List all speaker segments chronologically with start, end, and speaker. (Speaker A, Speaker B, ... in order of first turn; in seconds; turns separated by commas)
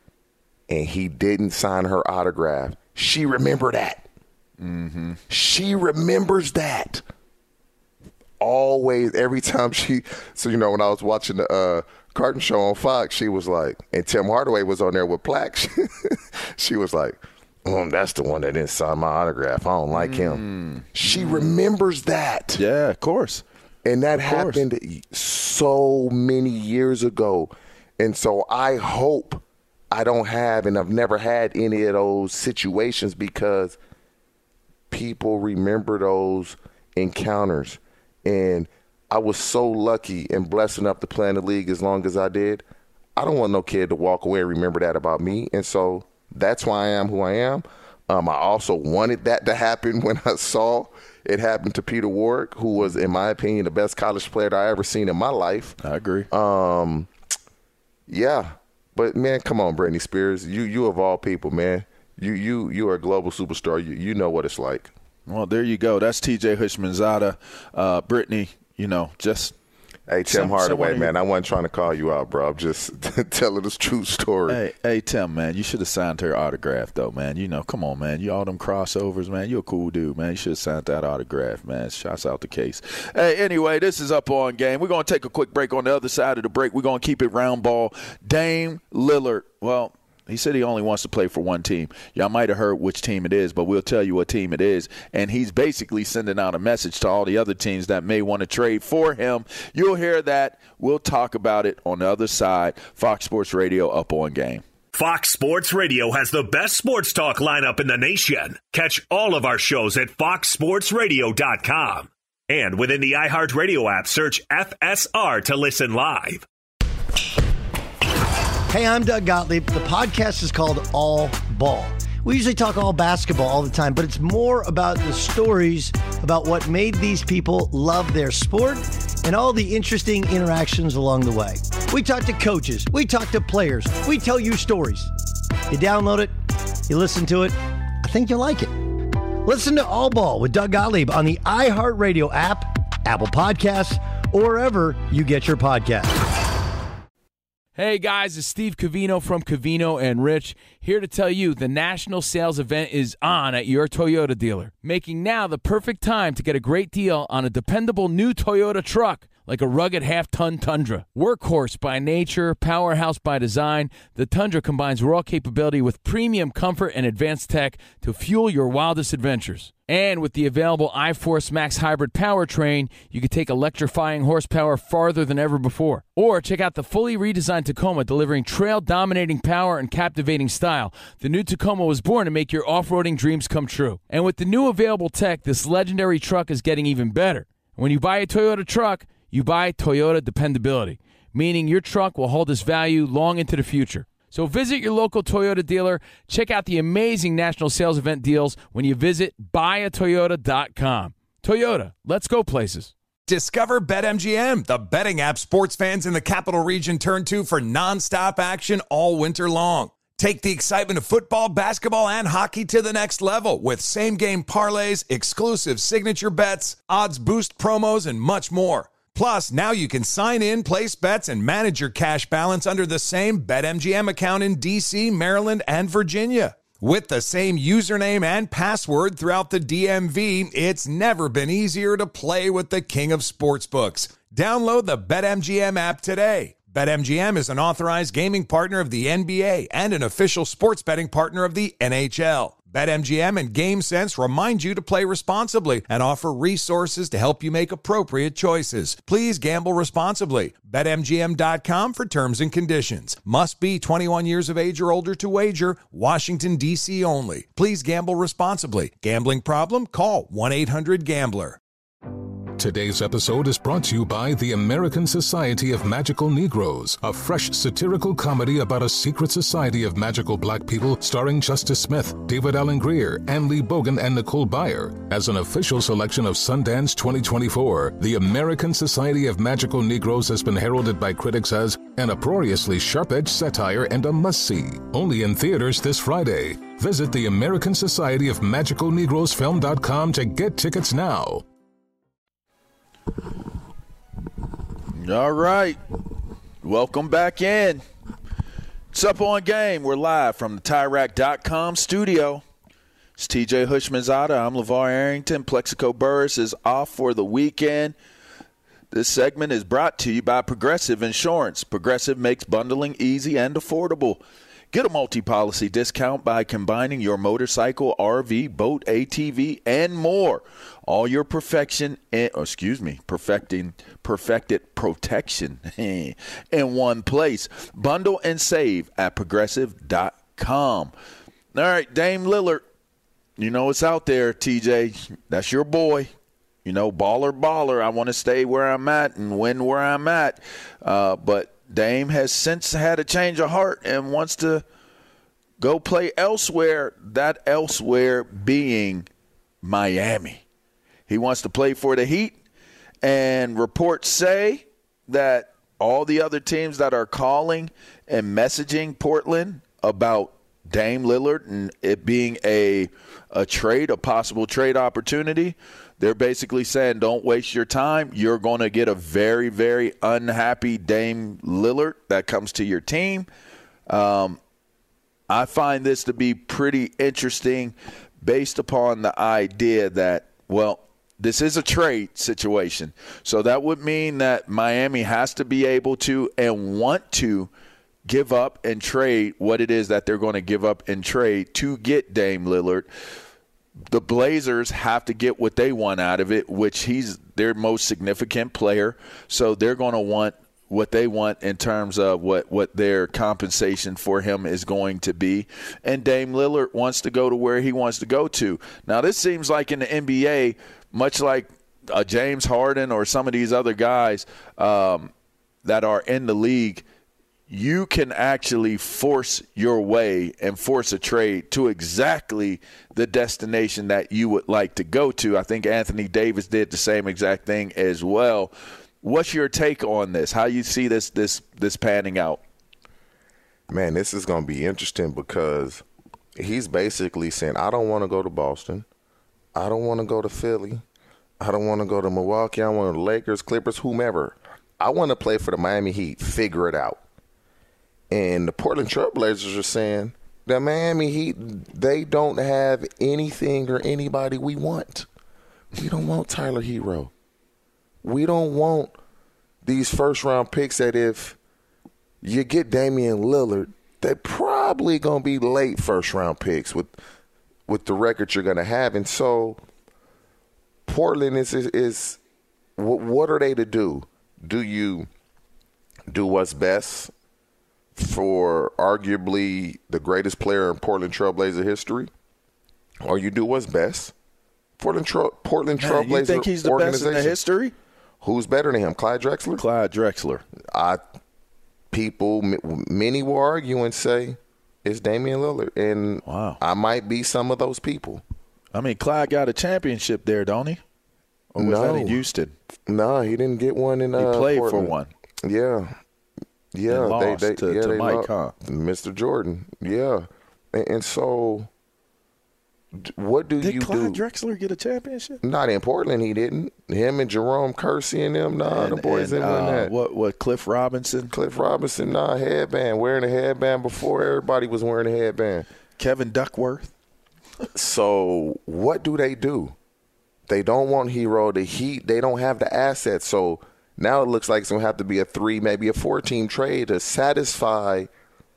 Speaker A: 0.7-4.0, Speaker B: 4.6-5.2, Speaker A: 5.3-7.0, Speaker A: 8.4-22.6, Speaker B: 19.9-21.5, Speaker B: 22.5-23.4, Speaker A: 23.8-33.8, Speaker B: 24.1-24.6, Speaker A: 34.9-42.6, Speaker A: 43.2-55.8, Speaker B: 55.8-56.3, Speaker A: 56.3-57.1, Speaker A: 58.1-64.9, Speaker B: 65.3-69.5, Speaker A: 70.1-74.6, Speaker B: 70.3-71.1, Speaker B: 74.5-104.6, Speaker C: 104.9-116.4, Speaker D: 118.7-135.1, Speaker D: 135.7-136.3, Speaker D: 136.9-138.8, Speaker D: 139.4-146.1, Speaker E: 147.8-202.9, Speaker F: 203.3-261.6, Speaker G: 262.6-291.4, Speaker B: 294.9-295.8, Speaker B: 296.6-297.8, Speaker B: 298.9-302.4, Speaker B: 303.2-307.9, Speaker B: 308.9-330.9, Speaker B: 331.5-332.6, Speaker B: 333.4-336.1, Speaker B: 336.6-344.6, Speaker B: 345.6-349.1, Speaker B: 349.6-350.4, Speaker B: 351.1-352.4, Speaker B: 353.0-373.3, Speaker B: 373.9-374.4, Speaker B: 375.3-387.5, Speaker B: 388.1-392.9, Speaker B: 393.9-415.1, Speaker B: 415.6-416.8, Speaker B: 417.5-432.4, Speaker A: 433.7-435.8, Speaker A: 436.4-438.9, Speaker A: 439.5-440.8, Speaker A: 441.4-447.0, Speaker A: 448.1-455.1, Speaker A: 455.8-457.1, Speaker A: 458.0-458.9, Speaker A: 459.6-461.4, Speaker A: 462.2-466.9, Speaker A: 467.7-469.6, Speaker A: 470.9-472.2, Speaker A: 472.8-475.1, Speaker A: 476.1-477.1, Speaker A: 477.9-482.1, Speaker A: 483.0-484.1, Speaker A: 484.8-487.4, Speaker B: 485.8-487.7, Speaker A: 488.2-489.6, Speaker B: 489.6-490.4, Speaker A: 490.7-491.0, Speaker A: 491.9-498.2, Speaker B: 496.2-496.6, Speaker B: 498.7-500.8, Speaker B: 501.5-502.5, Speaker A: 501.6-502.2, Speaker A: 502.9-504.9, Speaker B: 504.1-505.1, Speaker A: 505.4-506.0, Speaker A: 506.7-511.7, Speaker B: 506.9-508.5, Speaker A: 512.9-514.2, Speaker B: 513.6-515.4, Speaker A: 515.4-519.9, Speaker B: 518.6-521.3, Speaker A: 521.3-525.6, Speaker B: 526.0-526.9, Speaker A: 527.7-529.7, Speaker A: 530.5-538.1